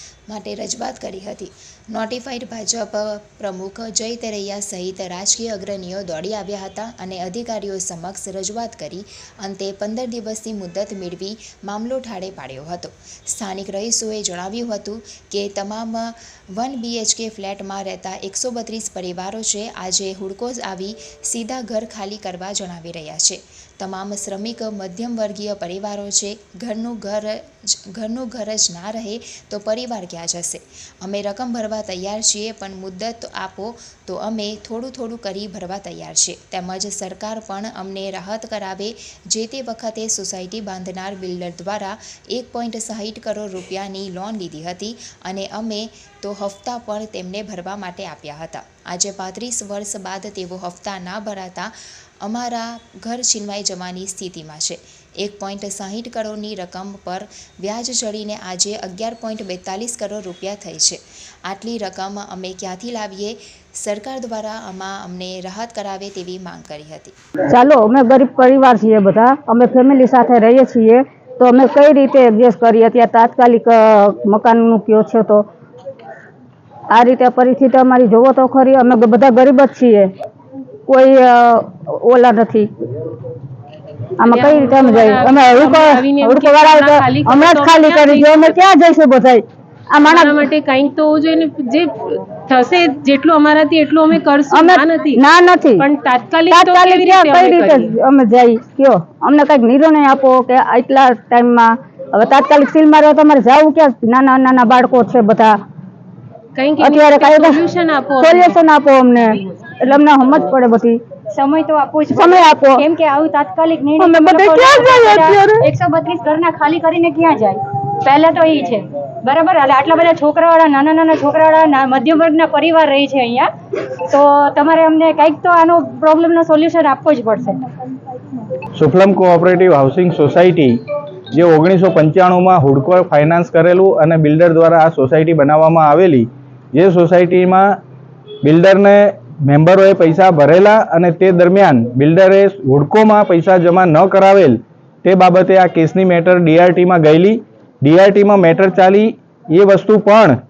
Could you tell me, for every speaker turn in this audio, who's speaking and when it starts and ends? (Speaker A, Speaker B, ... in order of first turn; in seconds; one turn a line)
Speaker A: 0.3-67.1
Speaker B: 67.5-75.5
Speaker B: 76.9-80.1
Speaker B: 80.9-82.7
Speaker B: 84.2-90.5
Speaker C: 84.2-88.6
Speaker C: 90.0-95.2
Speaker B: 94.5-95.9
Speaker C: 95.8-97.9
Speaker B: 96.5-105.6
Speaker C: 106.5-108.6
Speaker B: 106.8-107.6
Speaker B: 108.2-111.0
Speaker C: 109.3-109.9
Speaker D: 111.3-127.6
Speaker B: 112.1-112.8
Speaker B: 114.0-115.7
Speaker E: 128.8-130.8
Speaker E: 131.3-137.8
Speaker E: 138.4-150.3